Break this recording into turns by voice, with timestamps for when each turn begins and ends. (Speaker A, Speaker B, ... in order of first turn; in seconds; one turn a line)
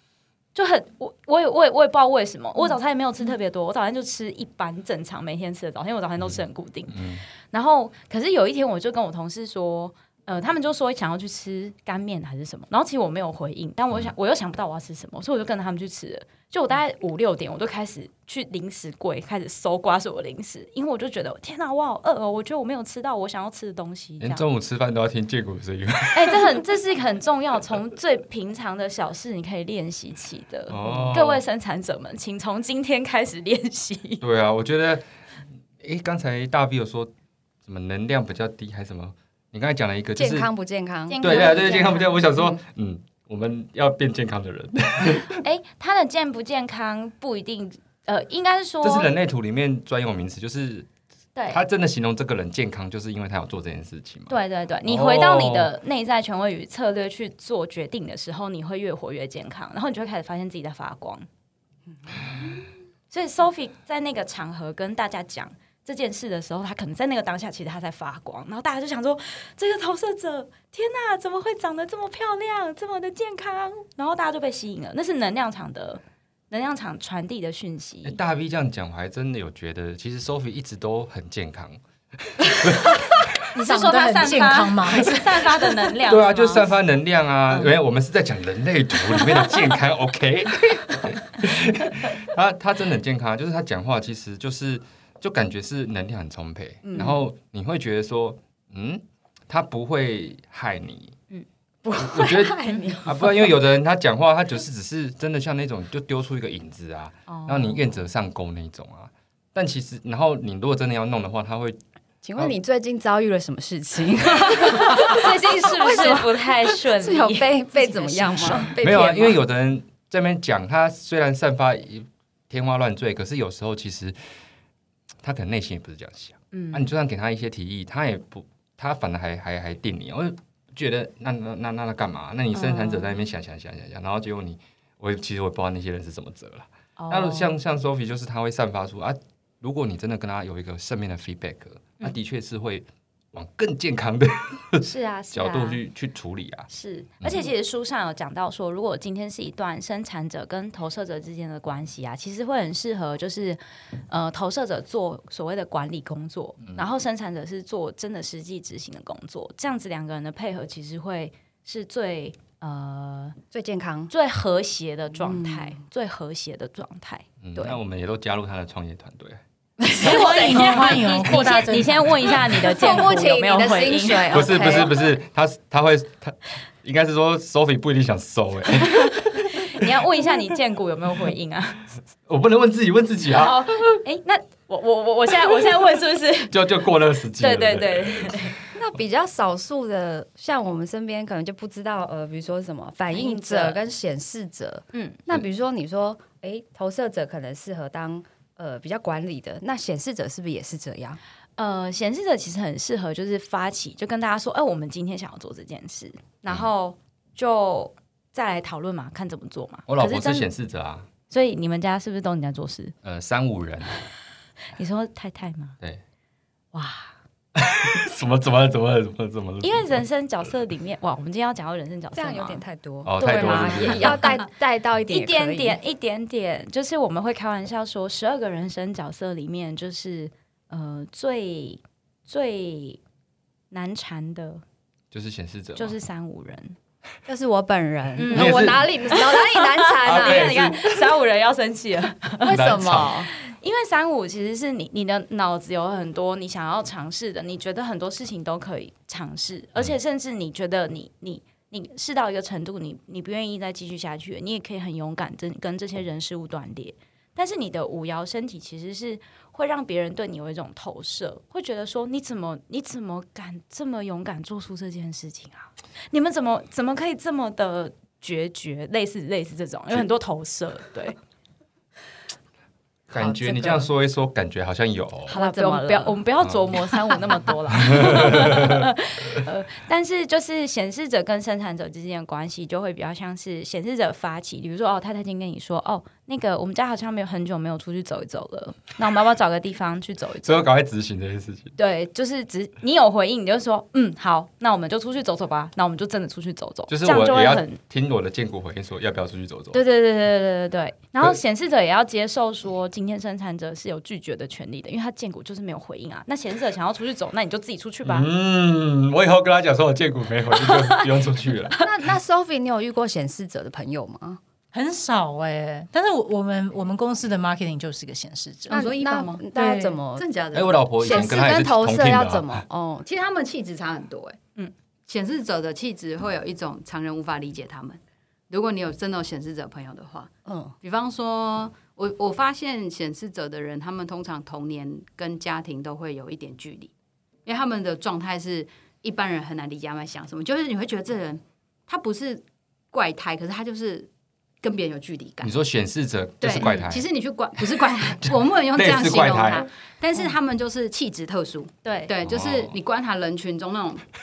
Speaker A: 0.6-24.5
Speaker B: 6.9-7.2
Speaker B: 24.2-26.6
Speaker A: 26.1-34.2
Speaker B: 30.7-31.4
Speaker B: 34.2-35.0
Speaker B: 35.8-37.1
Speaker B: 37.6-40.5
Speaker C: 40.2-42.5
Speaker A: 41.1-42.2
Speaker B: 41.2-45.4
Speaker A: 45.4-49.1
Speaker B: 48.8-50.9
Speaker A: 51.4-51.6
Speaker B: 51.5-55.7
Speaker A: 54.3-61.3
Speaker A: 63.1-78.2
Speaker B: 78.0-83.4
Speaker D: 83.5-85.4
Speaker A: 83.6-86.7
Speaker B: 86.0-101.2
Speaker C: 96.8-97.2
Speaker C: 101.8-103.5
Speaker B: 101.9-111.8
Speaker A: 107.3-107.9
Speaker C: 112.2-119.4
Speaker A: 114.6-118.8
Speaker B: 118.8-124.2
Speaker B: 125.2-146.7
Speaker A: 126.5-126.9
Speaker A: 132.5-133.1
Speaker A: 137.0-137.5
Speaker A: 144.8-145.8
Speaker A: 146.7-163.4
Speaker B: 147.2-147.5
Speaker C: 163.5-164.1
Speaker A: 164.1-167.8
Speaker C: 165.2-165.8
Speaker B: 167.4-169.4
Speaker A: 169.9-174.9
Speaker D: 169.9-172.4
Speaker C: 172.5-175.0
Speaker B: 174.3-179.9
Speaker A: 179.6-181.9
Speaker B: 182.3-184.0
Speaker A: 183.3-188.6
Speaker B: 186.5-188.6
Speaker C: 188.8-201.2
Speaker A: 193.1-193.8
Speaker A: 194.9-195.2
Speaker A: 201.6-210.5
Speaker B: 209.9-211.1
Speaker A: 211.3-212.9
Speaker B: 213.0-214.0
Speaker A: 214.8-215.8
Speaker A: 216.7-217.2
Speaker B: 217.6-220.0
Speaker A: 219.6-222.6
Speaker C: 222.2-225.8
Speaker B: 223.1-224.2
Speaker A: 223.2-224.4
Speaker A: 225.1-233.0
Speaker A: 233.7-234.6
Speaker B: 235.1-235.9
Speaker A: 235.8-236.8
Speaker C: 237.3-240.8
Speaker A: 238.2-242.7
Speaker B: 238.3-239.1
Speaker B: 240.0-240.8
Speaker C: 242.4-243.3
Speaker B: 242.5-243.1
Speaker A: 243.4-271.2
Speaker B: 273.1-275.4
Speaker C: 273.2-273.9
Speaker C: 275.3-276.2
Speaker A: 275.3-290.7
Speaker B: 277.9-278.8
Speaker B: 290.4-291.7
Speaker A: 291.8-297.8
Speaker B: 296.9-299.8
Speaker A: 299.7-308.3
Speaker B: 308.0-311.8
Speaker C: 311.8-314.4
Speaker D: 314.7-318.9
Speaker E: 318.7-319.5
Speaker C: 318.7-320.3
Speaker D: 319.6-320.0
Speaker E: 320.1-321.4
Speaker B: 320.5-322.6
Speaker C: 321.0-323.1
Speaker E: 323.1-324.4
Speaker E: 325.1-336.9
Speaker C: 330.4-330.8
Speaker E: 337.5-344.1
Speaker E: 344.6-345.6
Speaker B: 345.4-347.1
Speaker E: 346.4-354.1
Speaker A: 346.6-346.9
Speaker B: 348.2-349.7
Speaker A: 351.8-352.1
Speaker B: 352.2-352.8